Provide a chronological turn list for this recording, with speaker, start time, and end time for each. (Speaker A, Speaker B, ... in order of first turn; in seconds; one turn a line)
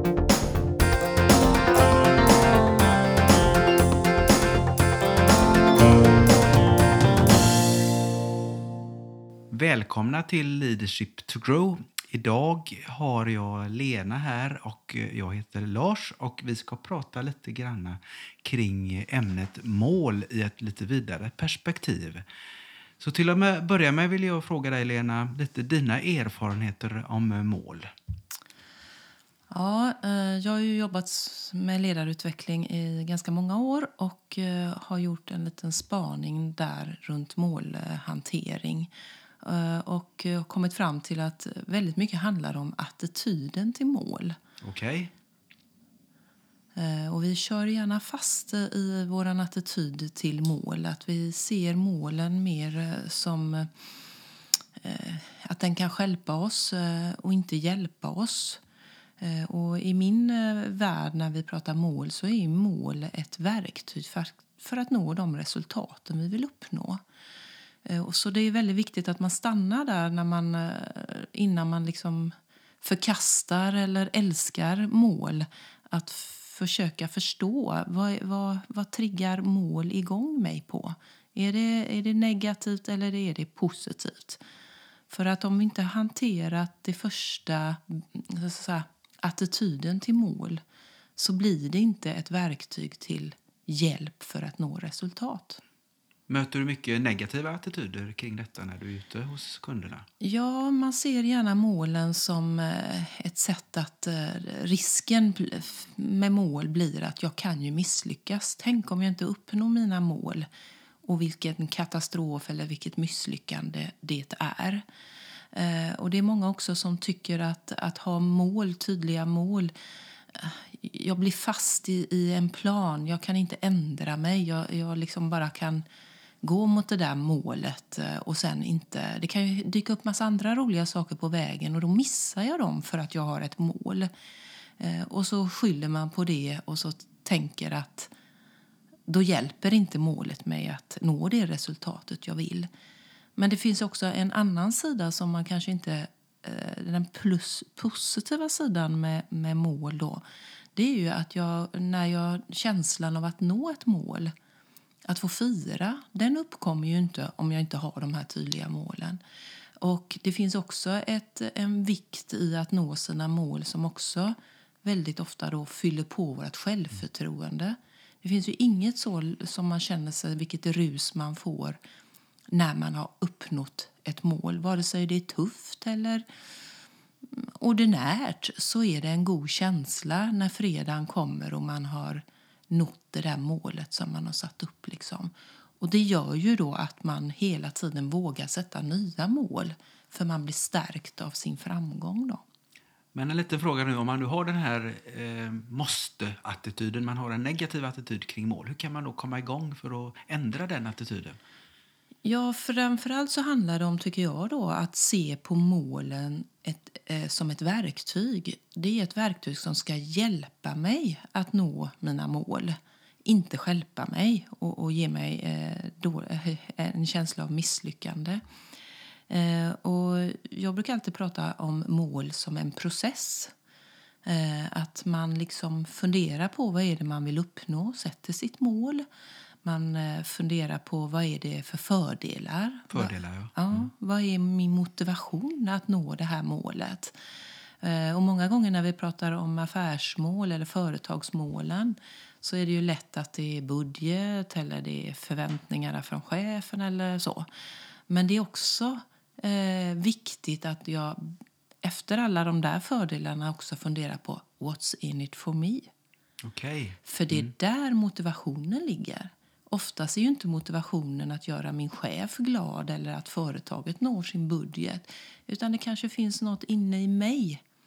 Speaker A: 9.5-22.2
Speaker A: 23.0-27.9
Speaker B: 29.5-44.4
Speaker A: 44.6-45.1
Speaker B: 46.8-53.7
Speaker B: 54.8-58.6
Speaker B: 59.2-67.0
Speaker B: 67.8-84.4
Speaker B: 85.1-90.6
Speaker B: 91.2-95.6
Speaker A: 96.3-100.1
Speaker B: 100.2-110.5
Speaker B: 111.0-114.8
Speaker B: 115.5-119.7
Speaker B: 120.3-125.8
Speaker B: 126.4-134.1
Speaker B: 134.8-138.1
Speaker B: 139.1-142.7
Speaker B: 143.4-150.2
Speaker B: 150.8-154.3
Speaker B: 155.1-159.2
Speaker B: 159.8-171.8
Speaker B: 172.5-176.2
Speaker B: 177.3-192.4
Speaker A: 193.1-201.4
Speaker B: 202.2-218.4
Speaker B: 219.3-223.5
Speaker B: 224.2-229.1
Speaker B: 229.6-237.2
Speaker A: 232.9-233.8
Speaker B: 237.8-247.5
Speaker B: 248.1-255.9
Speaker A: 256.4-257.0
Speaker B: 257.1-267.6